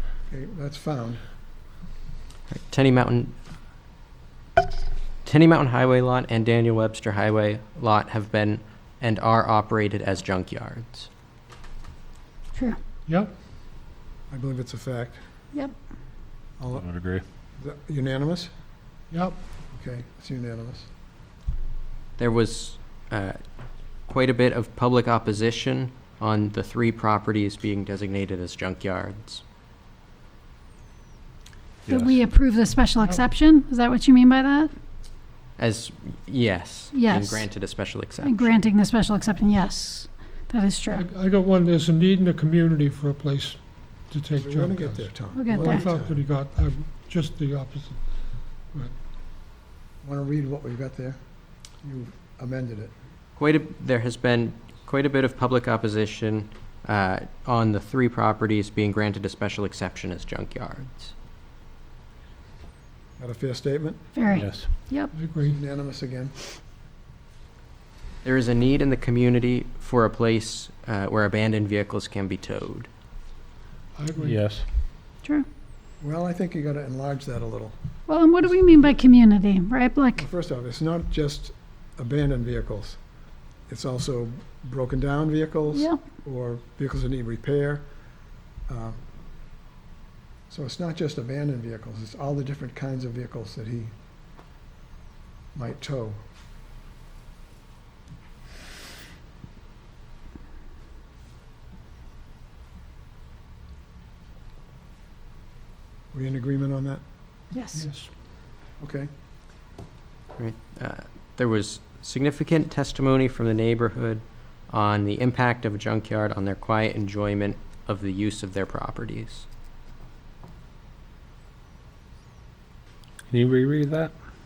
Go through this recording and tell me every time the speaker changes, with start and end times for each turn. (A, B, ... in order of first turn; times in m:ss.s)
0:00.3-0:01.2 A
0:02.5-0:03.3 B
0:05.2-0:11.1 B
0:13.1-0:13.3 C
0:14.3-0:15.2 A
0:16.6-0:16.9 A
0:16.7-0:17.2 D
0:17.6-0:18.5 A
0:19.1-0:19.4 C
0:19.7-0:20.9 A
0:22.2-0:23.4 B
0:24.1-0:29.4 B
0:31.9-0:32.1 D
0:31.9-0:34.7 E
0:35.6-0:38.6 B
0:36.9-0:37.5 E
0:38.2-0:41.0 E
0:40.9-0:48.2 C
0:44.4-0:46.2 A
0:45.3-0:45.9 E
0:50.0-0:51.2 A
0:51.8-0:52.9 A
0:53.4-1:01.1 B
1:03.2-1:04.2 A
1:04.2-1:05.1 E
1:04.3-1:04.7 D
1:05.1-1:05.6 C
1:05.4-1:06.4 A
1:08.2-1:12.9 B
1:14.0-1:14.4 C
1:14.2-1:14.7 D
1:16.0-1:17.8 A
1:18.1-1:20.2 E
1:20.2-1:23.0 A
1:23.7-1:27.8 A
1:25.7-1:26.0 E
1:28.7-1:29.0 A
1:30.5-1:33.9 A
1:35.5-1:36.2 A
1:46.1-1:47.0 A
1:47.5-1:47.8 E
1:47.7-1:48.1 C
1:48.8-1:49.1 A
1:50.4-1:59.5 B
2:03.3-2:04.1 D